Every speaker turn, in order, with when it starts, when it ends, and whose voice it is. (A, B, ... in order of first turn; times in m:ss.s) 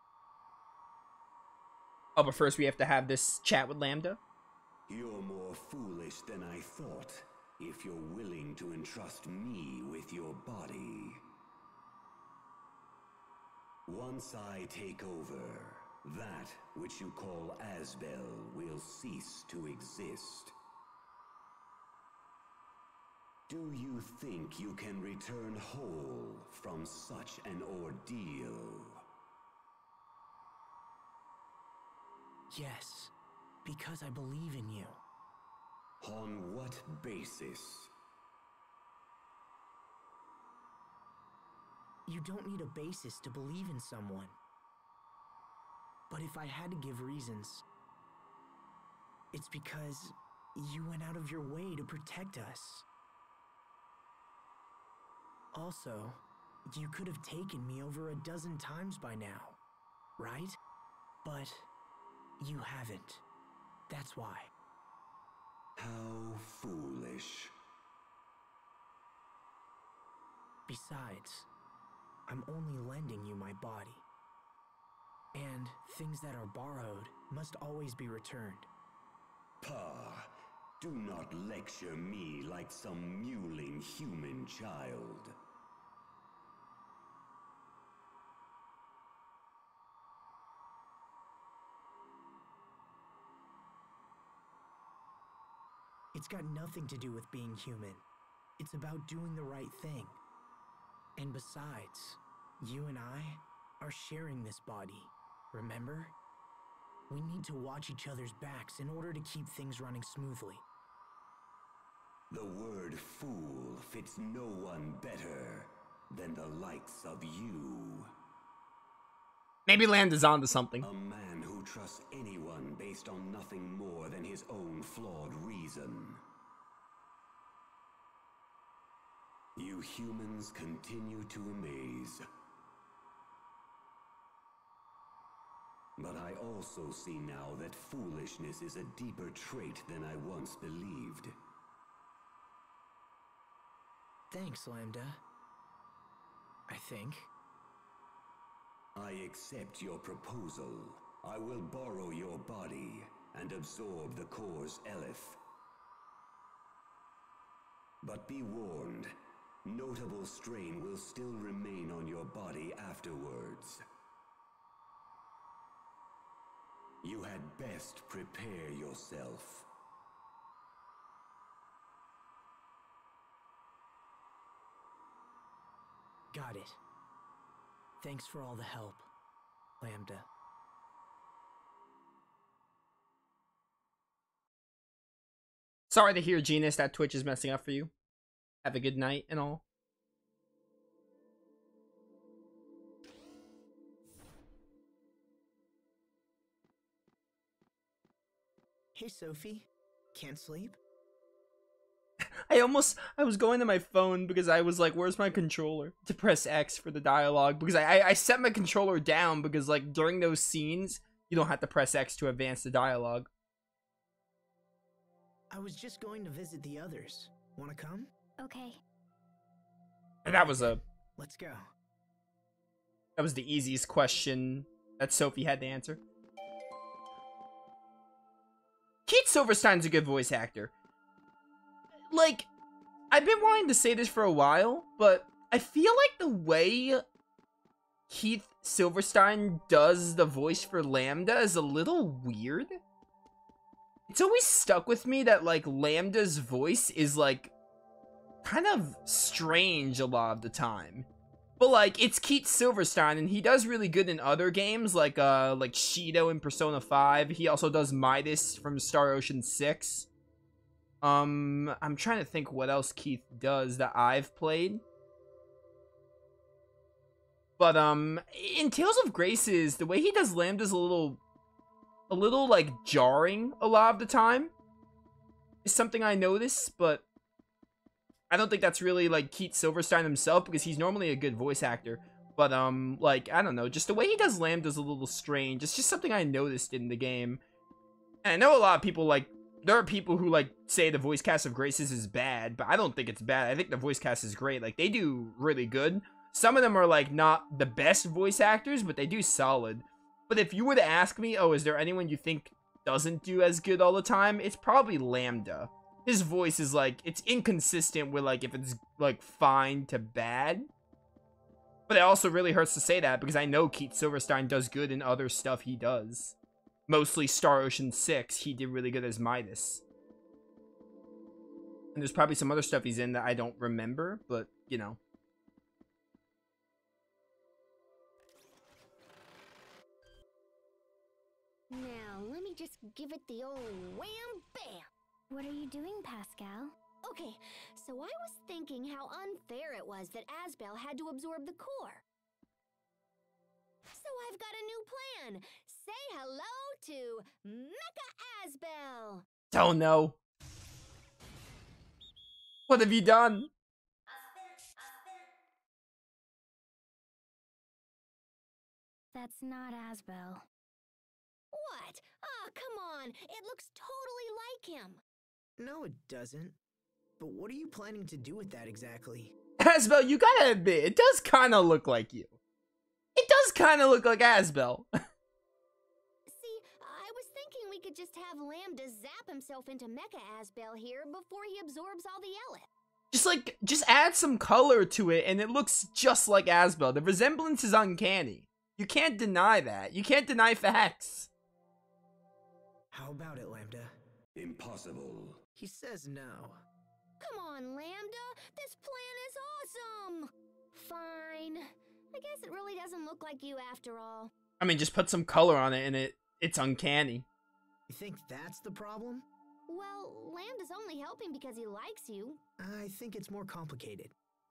0:02.2-0:04.2 A
0:04.9-0:11.2 B
0:13.9-0:20.6 B
0:23.5-0:29.0 B
0:32.5-0:33.1 C
0:33.6-0:35.0 C
0:36.0-0:37.9 B
0:42.1-0:44.4 C
0:46.1-0:47.6 C
0:49.3-0:52.9 C
0:55.5-0:59.6 C
1:00.2-1:00.6 C
1:01.2-1:01.7 C
1:02.4-1:03.2 C
1:03.9-1:04.5 C
1:05.8-1:07.5 B
1:10.7-1:11.5 C
1:12.3-1:14.0 C
1:15.4-1:18.7 C
1:19.6-1:20.3 B
1:20.8-1:25.3 B
1:36.1-1:38.0 C
1:38.6-1:40.2 C
1:41.2-1:46.2 C
1:47.1-1:50.6 C
1:52.3-1:58.1 B
1:59.7-2:00.9 A
2:00.8-2:06.2 B
2:09.6-2:12.2 B
2:16.0-2:21.4 B
2:24.3-2:25.2 C
2:26.7-2:27.3 C
2:29.0-2:35.4 B
2:38.0-2:39.1 B
2:39.6-2:43.8 B
2:47.0-2:49.7 B
2:56.3-2:56.8 C
2:58.0-2:59.1 C
2:59.8-3:00.3 C
3:05.9-3:07.9 A
3:08.6-3:09.6 A
3:19.0-3:20.8 C
3:22.5-3:33.3 A
3:35.5-3:38.1 C
3:38.4-3:38.8 D
3:40.2-3:40.8 A
3:40.3-3:41.6 C
3:43.2-3:46.0 A
3:49.1-3:50.7 A
3:52.1-3:52.5 A
3:53.1-3:57.0 A
3:58.1-4:02.8 A
4:04.1-4:07.5 A
4:08.4-4:11.1 A
4:11.6-4:20.1 A
4:21.0-4:24.8 A
4:27.6-4:31.2 A
4:32.1-4:34.5 A
4:35.6-4:37.0 A
4:38.3-4:47.4 A
4:48.2-5:10.7 A
5:11.9-5:16.4 A
5:16.9-5:19.8 A
5:22.0-5:25.0 A
5:31.7-5:34.9 E
5:35.3-5:36.8 D
5:37.0-5:42.0 E
5:43.9-5:49.3 E
5:49.5-5:50.2 A
5:52.7-5:53.5 A
5:59.1-6:00.4 D
6:01.5-6:05.0 E
6:05.6-6:06.6 C
6:07.2-6:09.3 C
6:09.6-6:12.4 A
6:13.2-6:14.9 A
6:16.3-6:22.7 E
6:23.1-6:31.3 A
6:32.9-6:33.9 C
6:34.4-6:35.4 B
6:35.6-6:36.6 C
6:37.2-6:44.3 E
6:44.6-6:47.3 A
6:47.9-6:49.3 C
6:49.7-6:52.4 E
6:52.6-6:54.2 C